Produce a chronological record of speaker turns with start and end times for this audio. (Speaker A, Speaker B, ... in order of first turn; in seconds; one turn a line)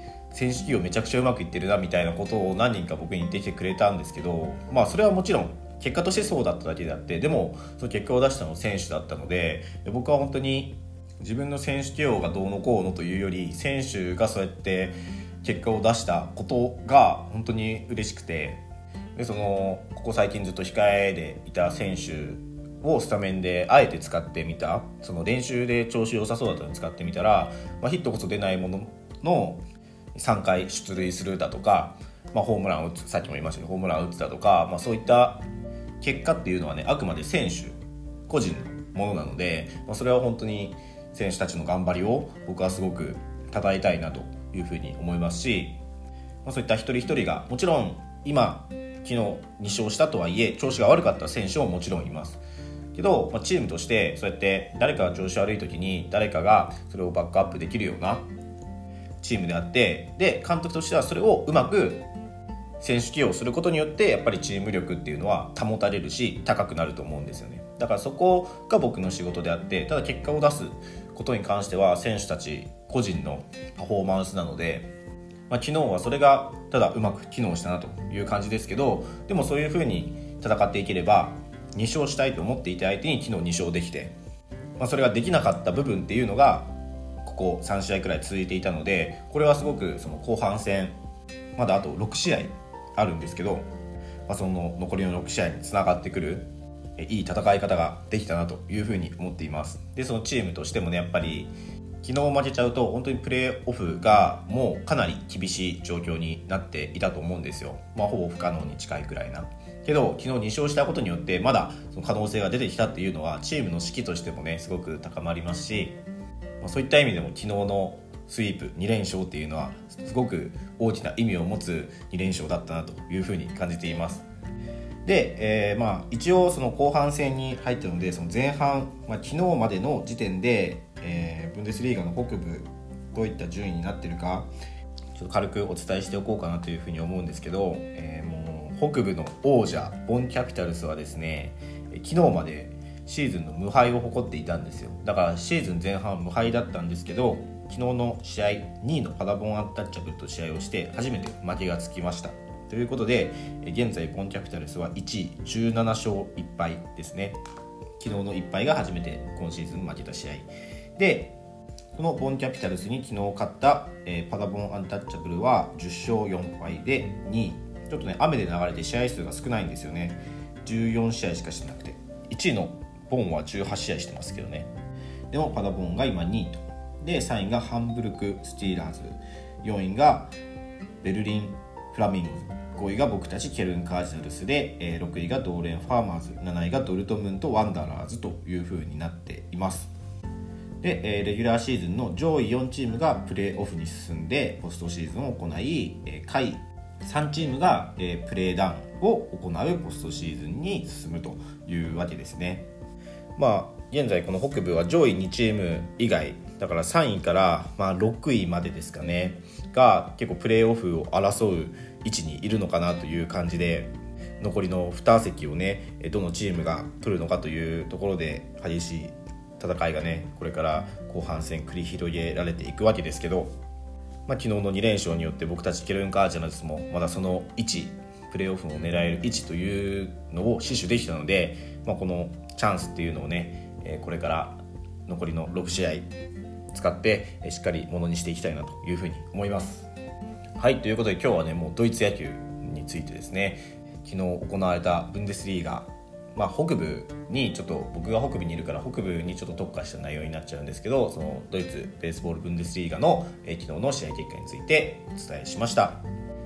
Speaker A: 0.3-18.6
Speaker A: 19.1-29.6
Speaker A: 30.1-35.4
Speaker A: 36.0-45.8
Speaker A: 46.4-52.4
Speaker A: 52.9-58.3
Speaker A: 59.2-62.0
Speaker A: 62.8-74.9
Speaker A: 75.5-84.1
Speaker A: 84.8-86.7
Speaker A: 87.2-91.0
Speaker A: 91.5-93.7
Speaker A: 94.3-101.5
Speaker A: 102.0-116.0
Speaker A: 116.6-124.2
Speaker A: 125.0-134.5
Speaker A: 135.1-157.4
Speaker A: 158.0-161.3
Speaker A: 161.9-174.7
Speaker A: 175.3-180.3
Speaker A: 181.0-189.9
Speaker A: 190.8-202.7
Speaker A: 203.3-223.5
Speaker A: 224.2-236.1
Speaker A: 236.7-239.9
Speaker A: 240.6-256.0